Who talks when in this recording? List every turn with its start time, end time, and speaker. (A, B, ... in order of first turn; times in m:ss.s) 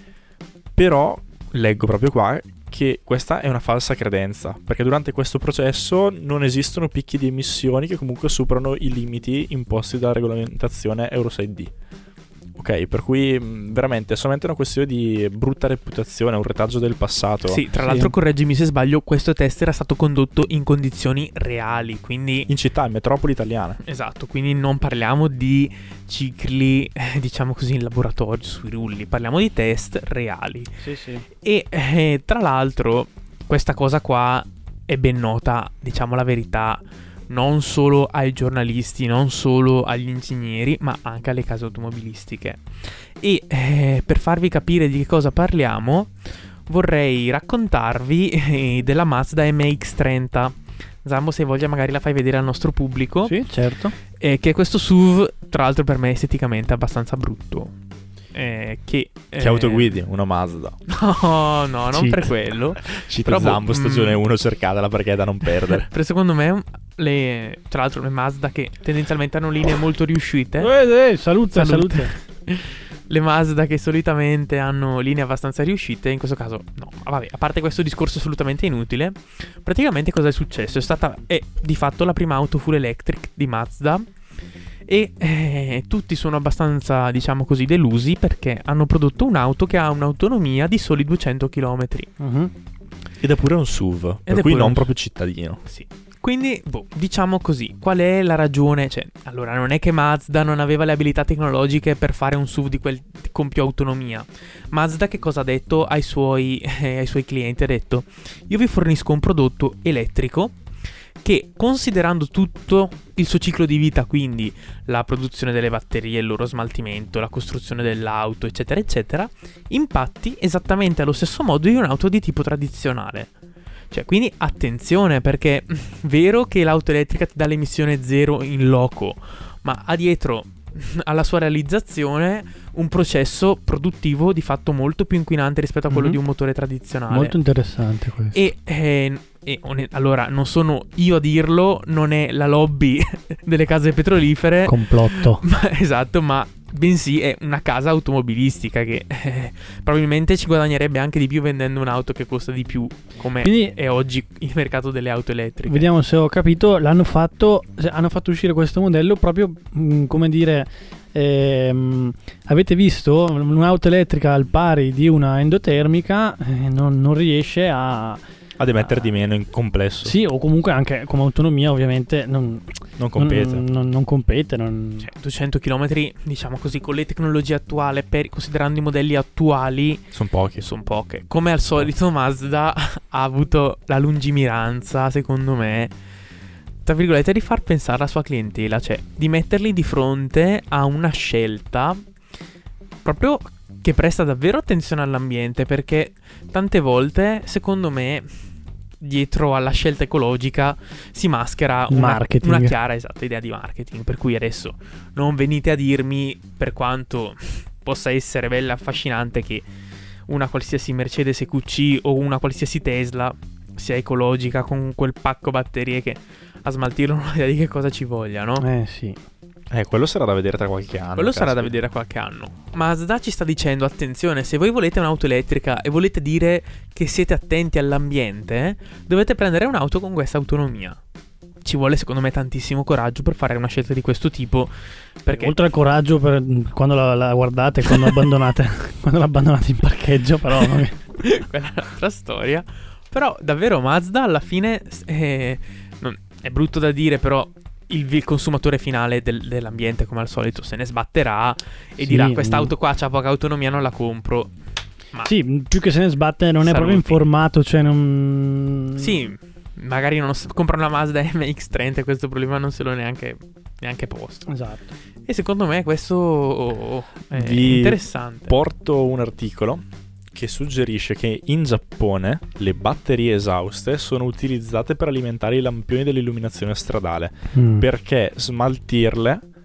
0:00.8-0:11.7 A
0:12.6-0:17.6 A
0:17.5-0:22.5 B
0:17.8-0:18.1 C
0:22.5-0:23.8 A
0:23.8-0:30.7 B
0:30.8-0:31.2 C
0:31.4-0:53.4 B
0:53.3-0:53.9 C
0:54.1-0:57.7 B
0:58.3-0:59.9 B
0:59.4-1:00.8 A
1:00.9-1:04.2 B
1:01.9-1:02.3 C
1:03.0-1:05.8 A
1:05.8-1:10.7 B
1:10.6-1:12.1 C
1:11.5-1:24.0 B
1:24.9-1:32.1 B
1:32.2-1:32.5 C
1:33.2-1:35.6 A
1:34.3-1:34.9 B
1:35.6-1:50.5 B
1:51.2-2:03.3 B
2:03.9-2:17.3 B
2:15.9-2:16.2 C
2:17.1-2:18.4 C
2:18.3-2:35.8 B
2:24.6-2:25.4 C
2:33.4-2:33.7 C
2:35.7-2:48.2 C
2:48.6-2:50.2 A
2:48.8-2:49.1 C
2:50.0-2:55.1 C
2:53.0-2:53.6 A
2:55.0-3:00.0 B
3:00.1-3:00.7 A
3:00.6-3:05.9 B
3:06.8-3:12.0 B
3:13.0-3:18.3 B
3:19.0-3:29.6 B
3:21.9-3:22.7 C
3:30.3-3:38.6 B
3:38.6-3:39.2 C
3:39.7-3:41.8 A
3:41.2-3:51.0 B
3:51.6-3:55.5 B
3:55.3-4:01.0 C
4:01.2-4:14.5 B
4:12.0-4:12.7 C
4:15.2-4:19.1 C
4:16.6-4:17.2 B
4:19.0-4:24.5 B
4:24.5-4:24.8 C
4:25.3-4:28.5 B
4:27.3-4:39.4 A
4:37.5-4:37.8 C